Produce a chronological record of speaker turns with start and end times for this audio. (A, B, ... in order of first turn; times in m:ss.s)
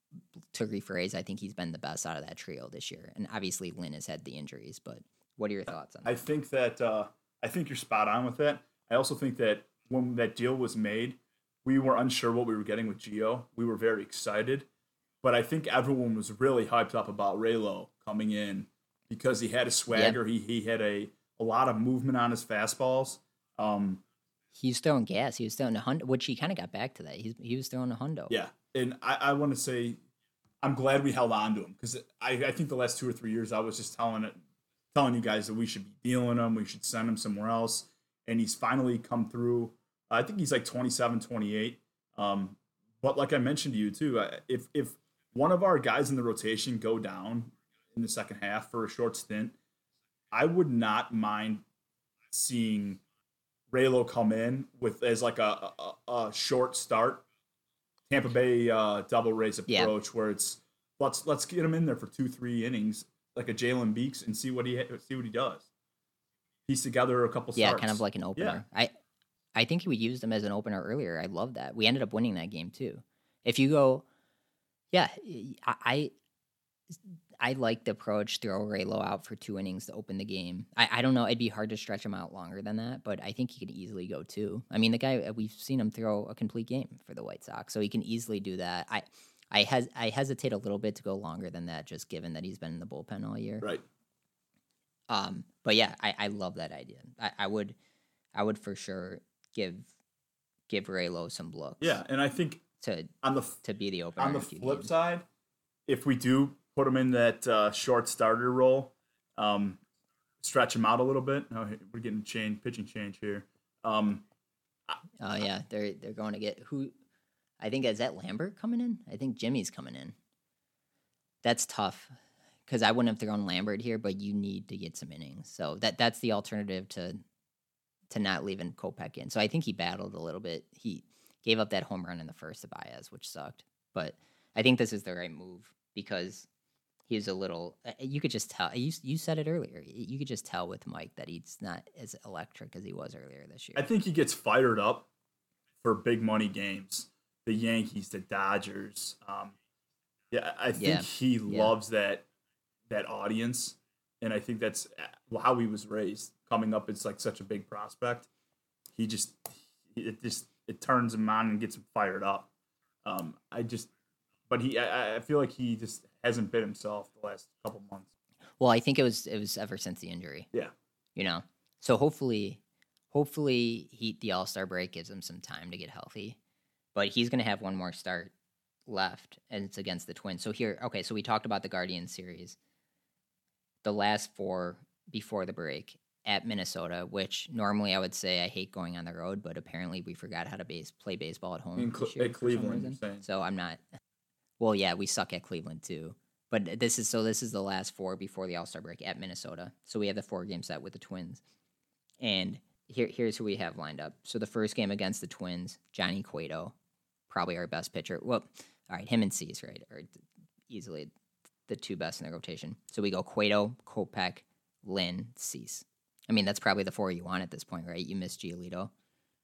0:00.5-0:06.1 A
0:06.0-0:14.7 B
0:15.2-0:24.0 B
0:19.9-0:20.2 A
0:24.6-0:28.4 A
0:28.3-0:30.0 B
0:30.6-0:34.4 B
0:34.9-0:49.6 B
0:50.3-0:51.6 B
0:52.3-0:53.0 B
0:53.7-0:57.3 B
0:58.1-1:05.7 B
0:59.7-0:59.9 A
1:06.7-1:08.6 B
1:07.6-1:08.9 A
1:09.6-1:14.0 A
1:14.9-1:16.1 A
1:17.4-1:33.7 A
1:35.1-1:37.8 A
1:38.4-1:39.9 A
1:40.7-1:42.0 A
1:41.8-1:42.6 B
1:42.8-1:43.1 A
1:43.2-1:43.6 B
1:43.6-1:44.9 A
1:44.2-1:45.2 B
1:45.9-1:49.8 B
1:50.4-1:54.2 B
1:55.2-1:56.9 A
1:57.6-2:00.2 A
2:01.4-2:02.1 A
2:02.7-2:07.2 A
2:08.1-2:16.5 A
2:17.1-2:23.8 A
2:23.8-2:25.1 B
2:25.8-2:29.6 B
2:30.3-2:32.2 B
2:30.8-2:31.7 A
2:32.9-2:38.3 B
2:39.0-2:42.5 B
2:43.0-2:43.9 B
2:44.5-2:48.1 B
2:48.6-2:50.5 A
2:51.2-2:52.6 A
2:53.1-2:56.4 A
2:57.0-2:58.3 A
2:58.9-3:02.6 A
3:03.8-3:13.8 A
3:11.8-3:13.2 B
3:14.6-3:21.4 A
3:22.2-3:26.8 A
3:27.3-3:31.1 A
3:31.7-3:38.9 A